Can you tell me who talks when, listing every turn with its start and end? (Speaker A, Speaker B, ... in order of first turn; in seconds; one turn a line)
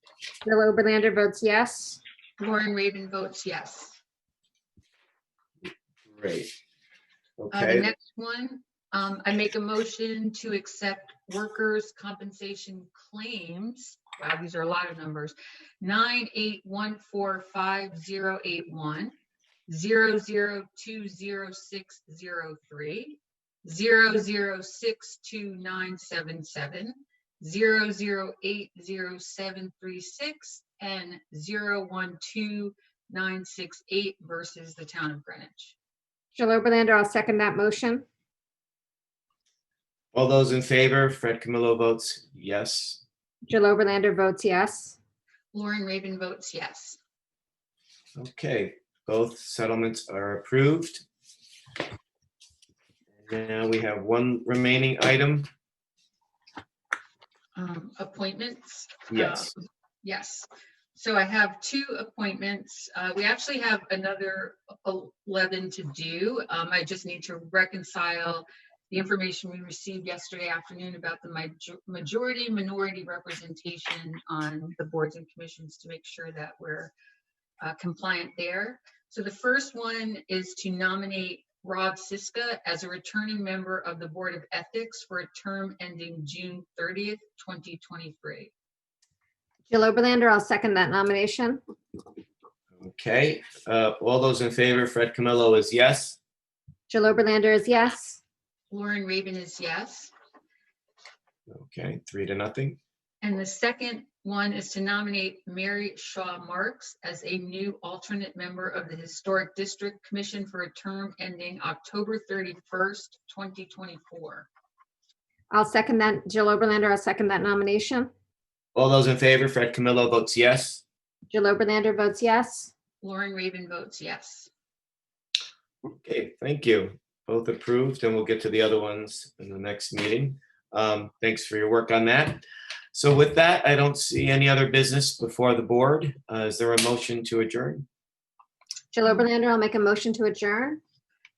Speaker A: 0.5-2.0
Speaker B: 2.4-4.0
Speaker C: 6.1-6.5
Speaker C: 7.4-7.9
Speaker B: 7.5-19.1
Speaker B: 19.7-35.7
Speaker A: 36.4-38.0
Speaker C: 40.1-43.0
Speaker A: 43.5-45.0
Speaker B: 45.5-47.0
Speaker C: 48.2-51.0
Speaker C: 53.2-55.5
Speaker B: 57.6-59.5
Speaker C: 59.1-59.5
Speaker B: 60.0-76.9
Speaker B: 77.6-88.5
Speaker A: 89.7-91.6
Speaker C: 92.8-96.2
Speaker A: 96.9-98.2
Speaker B: 98.7-100.1
Speaker C: 101.5-102.8
Speaker B: 103.2-114.5
Speaker A: 115.5-118.1
Speaker C: 118.8-120.8
Speaker A: 121.3-122.7
Speaker B: 123.0-124.5
Speaker C: 126.0-137.8
Speaker A: 138.9-140.8